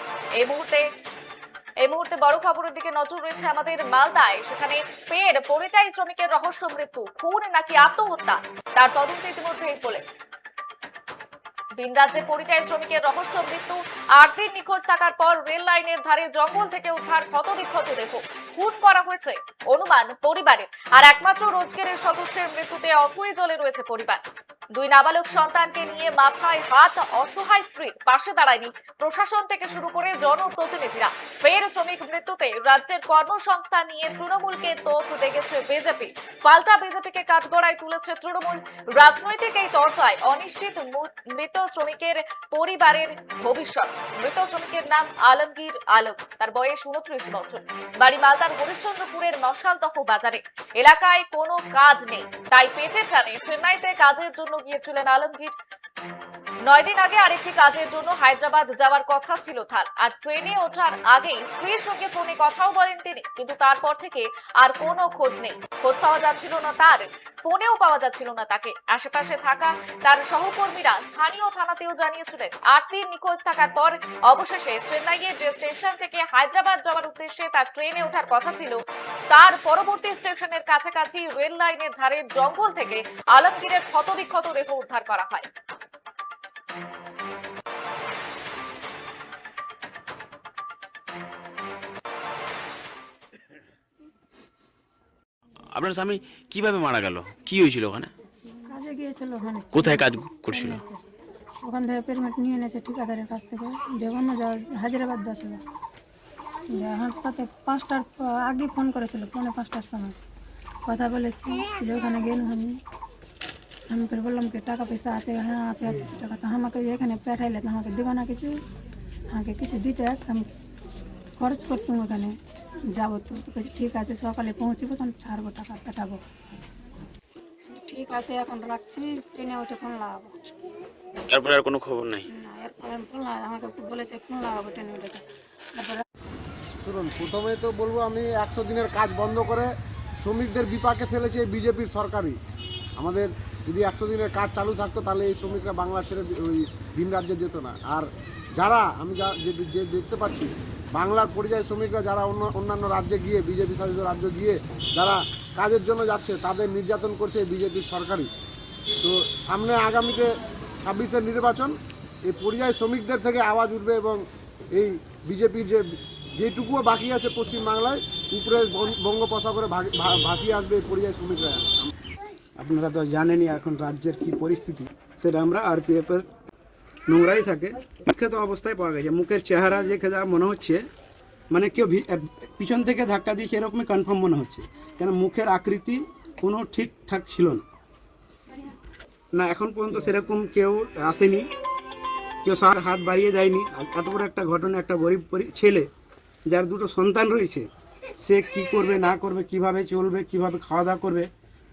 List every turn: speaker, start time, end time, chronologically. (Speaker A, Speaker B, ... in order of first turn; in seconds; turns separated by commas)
Speaker A: 0.4-0.8, Speaker A: 1.8-10.0, Speaker A: 11.8-24.2, Speaker A: 24.7-55.5, Speaker A: 56.6-78.8, Speaker A: 79.3-85.5, Speaker B: 95.7-98.1, Speaker C: 98.7-101.0, Speaker B: 99.7-100.8, Speaker C: 101.6-105.6, Speaker C: 106.7-110.2, Speaker C: 110.8-112.8, Speaker C: 113.9-118.6, Speaker C: 119.3-120.5, Speaker C: 121.4-122.3, Speaker C: 122.9-126.2, Speaker C: 127.8-130.4, Speaker B: 131.3-132.2, Speaker C: 132.3-135.2, Speaker C: 135.7-136.0, Speaker D: 136.8-142.3, Speaker D: 143.0-158.3, Speaker D: 159.0-160.3, Speaker D: 160.8-161.7, Speaker D: 162.2-171.9, Speaker E: 172.6-176.3, Speaker E: 177.1-180.8, Speaker E: 181.5-187.6, Speaker E: 189.3-191.5, Speaker E: 192.4-195.9, Speaker E: 196.5-201.3